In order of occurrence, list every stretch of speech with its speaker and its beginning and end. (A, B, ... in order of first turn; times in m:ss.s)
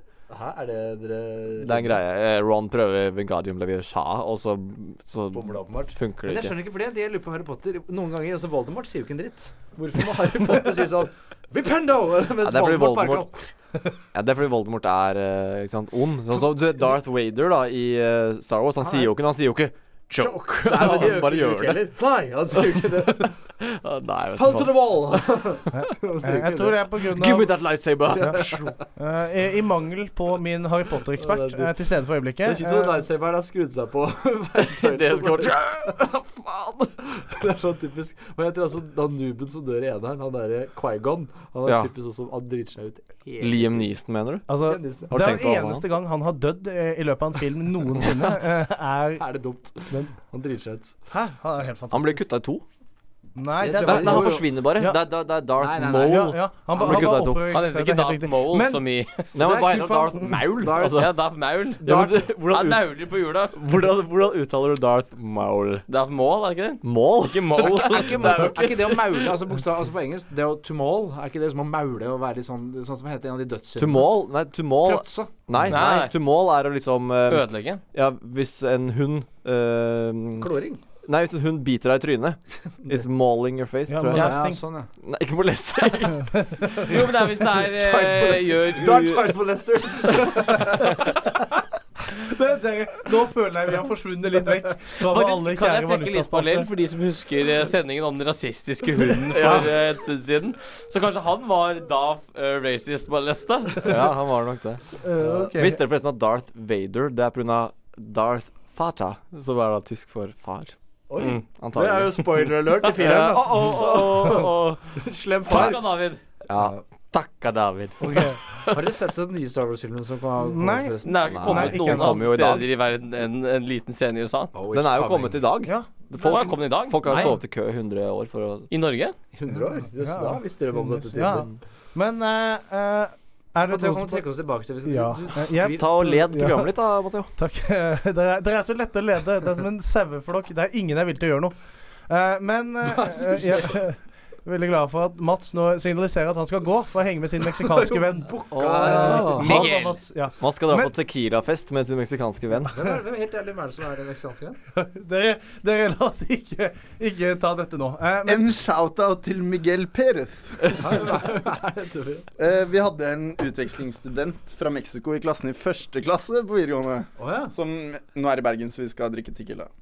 0:00.3-0:02.0 A
0:01.6-0:06.6 B
0:05.3-0:13.5 A
0:12.4-0:13.3 B
0:14.1-0:21.9 B
0:18.8-0:19.1 A
0:20.2-0:23.3 A
0:22.7-0:24.9 B
0:24.3-0:26.8 A
0:25.7-0:27.5 C
0:27.0-0:28.7 B
0:28.1-0:28.7 A
0:29.0-0:33.0 C
0:31.2-0:31.7 A
0:32.4-0:43.9 A
0:34.6-0:36.8 B
0:41.6-0:41.9 B
0:43.4-0:44.5 B
0:44.5-0:49.2 C
0:44.6-0:45.2 A
0:45.1-0:45.8 B
0:49.2-0:50.9 A
0:51.1-0:52.2 C
0:51.9-0:52.6 B
0:53.4-0:55.0 C
0:53.6-0:54.4 A
0:53.8-0:57.5 B
0:55.6-0:57.0 A
0:56.0-0:58.8 C
0:57.4-0:59.3 D
0:59.3-1:01.1 B
0:59.4-1:01.0 A
1:00.7-1:03.5 D
1:01.8-1:02.8 B
1:03.5-1:05.8 B
1:05.9-1:08.5 D
1:06.8-1:09.3 B
1:07.6-1:14.2 A
1:13.8-1:20.5 B
1:14.8-1:15.7 A
1:15.6-1:16.1 D
1:17.3-1:17.8 D
1:20.4-1:20.8 A
1:21.0-1:24.4 B
1:23.9-1:24.6 C
1:24.1-1:24.9 A
1:25.0-1:26.4 B
1:26.3-1:26.8 C
1:26.8-1:29.4 D
1:27.6-1:31.1 A
1:32.1-1:36.7 C
1:35.0-1:44.0 D
1:39.3-1:39.8 B
1:43.8-1:44.8 B
1:45.0-1:45.8 C
1:45.4-1:50.7 B
1:51.1-1:55.8 A
1:51.6-1:54.9 B
1:55.5-1:56.2 D
1:55.5-1:55.8 B
1:56.5-1:58.8 B
1:56.6-1:56.8 A
1:58.0-1:58.4 C
1:58.7-2:01.8 A
2:00.4-2:02.2 C
2:01.0-2:04.5 D
2:01.3-2:02.7 B
2:04.5-2:05.5 A
2:04.7-2:08.7 B
2:05.6-2:06.4 C
2:06.2-2:07.3 D
2:07.0-2:07.3 A
2:08.7-2:09.1 D
2:09.3-2:11.6 A
2:10.0-2:14.2 C
2:13.6-2:16.2 A
2:14.8-2:16.7 C
2:15.7-2:17.3 B
2:17.4-2:21.5 C
2:22.1-2:30.9 C
2:22.9-2:23.7 A
2:27.5-2:29.9 A
2:28.5-2:32.8 B
2:29.3-2:29.9 D
2:32.6-2:34.6 A
2:34.7-2:38.6 C
2:38.2-2:41.2 E
2:40.8-2:42.3 A
2:42.4-2:49.7 E
2:47.2-2:47.5 A